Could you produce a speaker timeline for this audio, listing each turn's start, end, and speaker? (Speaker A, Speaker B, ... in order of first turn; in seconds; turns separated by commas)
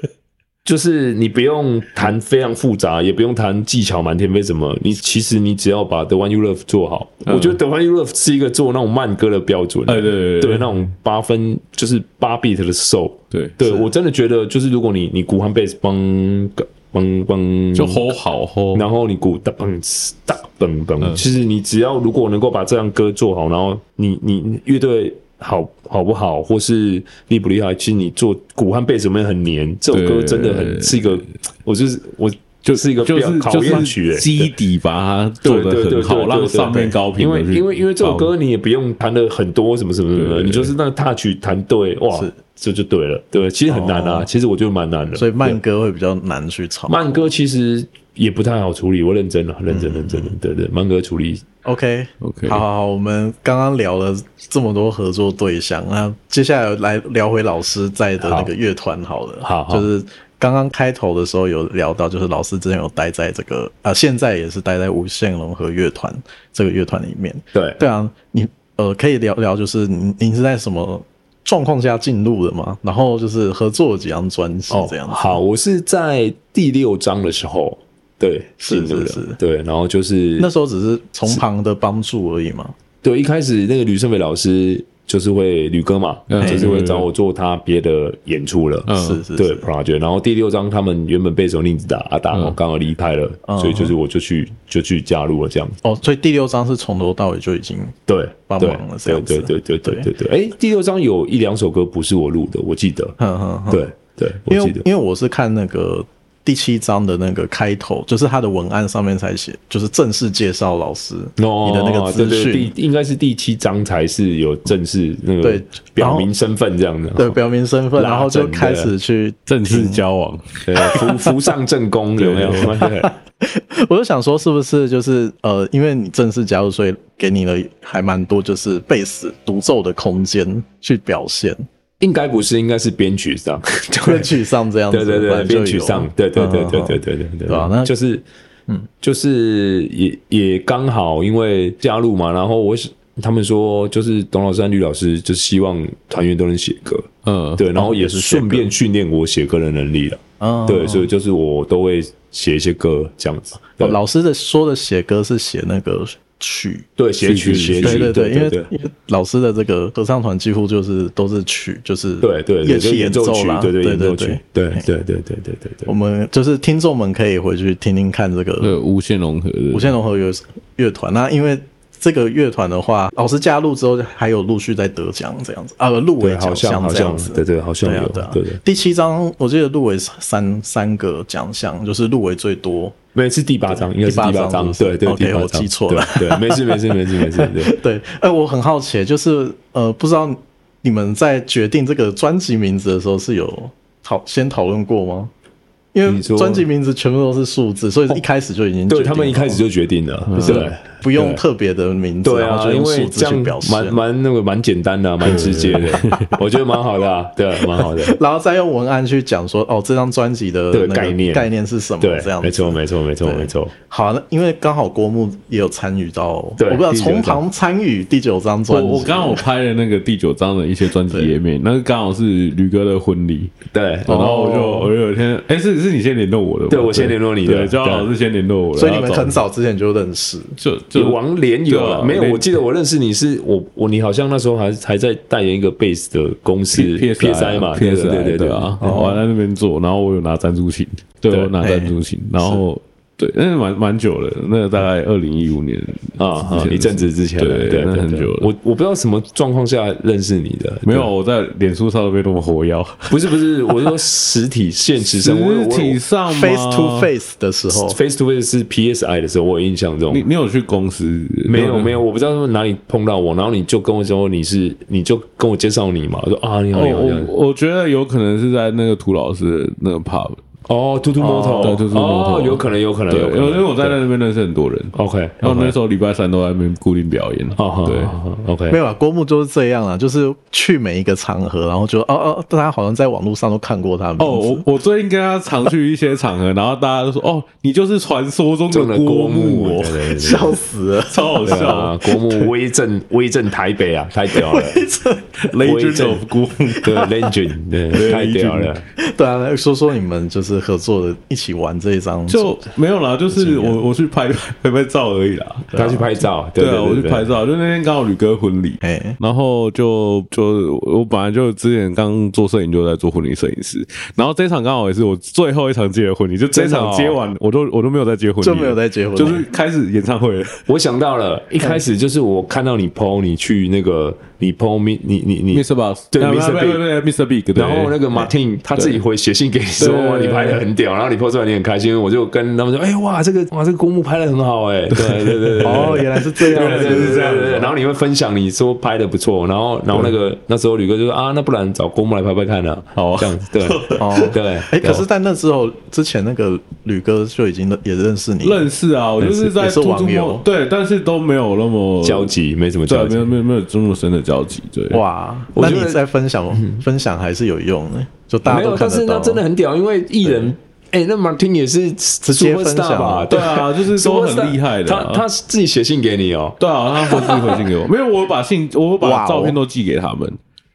Speaker A: 0.6-18.1, Speaker B: 7.3-7.6, Speaker B: 9.9-10.9, Speaker B: 13.3-13.6, Speaker B: 17.8-18.9, Speaker A: 18.7-34.5, Speaker B: 29.9-31.3, Speaker B: 32.6-38.3, Speaker A: 35.4-45.6, Speaker B: 40.1-40.7, Speaker C: 43.7-44.3, Speaker C: 45.1-47.3, Speaker A: 46.9-51.4, Speaker C: 49.7-50.4, Speaker C: 51.6-75.4, Speaker B: 52.2-52.6, Speaker A: 58.2-58.5, Speaker A: 59.4-59.9, Speaker A: 67.5-67.8, Speaker A: 74.7-80.5, Speaker C: 78.6-79.4, Speaker C: 80.4-82.8, Speaker A: 83.0-95.8, Speaker B: 86.3-87.1, Speaker C: 86.4-86.7, Speaker B: 88.9-89.2, Speaker C: 88.9-89.7, Speaker B: 92.3-92.6, Speaker C: 93.5-93.9, Speaker C: 95.8-98.0, Speaker A: 98.1-103.2, Speaker C: 98.5-100.1, Speaker C: 103.2-103.9, Speaker A: 103.7-104.8, Speaker C: 104.5-112.7, Speaker A: 111.4-117.4, Speaker C: 115.4-116.3, Speaker C: 117.2-120.0, Speaker A: 118.0-118.9, Speaker B: 119.5-121.0, Speaker A: 120.7-123.1, Speaker C: 120.8-121.1, Speaker B: 122.2-122.8, Speaker C: 122.8-131.6, Speaker A: 132.0-134.3, Speaker C: 134.0-137.9, Speaker A: 134.9-138.2, Speaker A: 139.0-154.0, Speaker B: 147.2-147.6, Speaker C: 147.8-148.7, Speaker C: 150.4-151.1, Speaker C: 153.8-156.9, Speaker A: 157.0-158.7, Speaker B: 157.2-158.1, Speaker C: 157.8-164.9, Speaker A: 162.2-165.9, Speaker C: 165.9-168.8, Speaker B: 168.6-169.9, Speaker C: 169.7-182.9, Speaker A: 176.2-178.6, Speaker A: 183.1-187.7, Speaker C: 183.8-195.3, Speaker C: 195.9-199.6, Speaker A: 196.1-196.6, Speaker A: 198.9-201.4, Speaker B: 200.3-200.7, Speaker C: 200.3-204.0, Speaker A: 202.2-208.2, Speaker B: 205.2-206.3, Speaker C: 207.8-219.4, Speaker A: 210.7-211.5, Speaker A: 212.0-213.7, Speaker A: 216.6-217.4, Speaker B: 218.7-229.4, Speaker A: 223.7-224.9, Speaker A: 226.7-228.1, Speaker C: 228.8-230.6, Speaker B: 230.6-232.6, Speaker A: 230.9-238.8, Speaker B: 236.7-248.5, Speaker C: 238.8-239.2, Speaker C: 241.6-242.6, Speaker A: 246.2-251.1, Speaker B: 250.8-253.3, Speaker A: 253.1-256.0, Speaker B: 255.0-257.1, Speaker C: 256.3-258.0, Speaker A: 257.7-260.2, Speaker B: 260.1-262.0, Speaker A: 261.4-267.3, Speaker B: 266.7-270.4, Speaker A: 270.7-274.0, Speaker C: 271.2-271.8, Speaker B: 271.6-278.2, Speaker A: 274.9-275.8, Speaker A: 277.6-278.8, Speaker C: 278.7-284.6, Speaker B: 284.2-290.3, Speaker A: 288.7-290.6, Speaker C: 290.2-291.8, Speaker B: 291.1-291.9, Speaker A: 291.4-294.9, Speaker C: 294.3-295.4, Speaker B: 295.4-296.9, Speaker A: 295.6-296.2, Speaker C: 296.8-297.1, Speaker A: 296.8-298.8, Speaker B: 297.9-298.8, Speaker C: 299.0-302.6, Speaker B: 302.3-305.9, Speaker C: 303.3-303.8, Speaker C: 305.7-306.0, Speaker A: 305.7-307.3, Speaker B: 306.6-320.7, Speaker C: 308.8-309.2, Speaker A: 316.5-317.2, Speaker C: 318.4-319.4, Speaker A: 320.7-326.8, Speaker B: 325.5-328.0, Speaker A: 327.6-345.1, Speaker B: 328.8-329.0, Speaker B: 329.8-330.6, Speaker B: 334.9-337.7, Speaker C: 335.6-337.6, Speaker B: 342.9-344.3, Speaker C: 344.0-348.7, Speaker B: 348.4-352.3, Speaker C: 349.3-350.4, Speaker A: 352.0-353.3, Speaker B: 352.9-355.0, Speaker C: 354.9-359.4, Speaker A: 355.5-356.0, Speaker A: 356.5-356.8, Speaker A: 358.4-367.6, Speaker C: 362.2-363.3, Speaker B: 363.3-365.2, Speaker B: 366.6-370.4, Speaker C: 369.0-369.6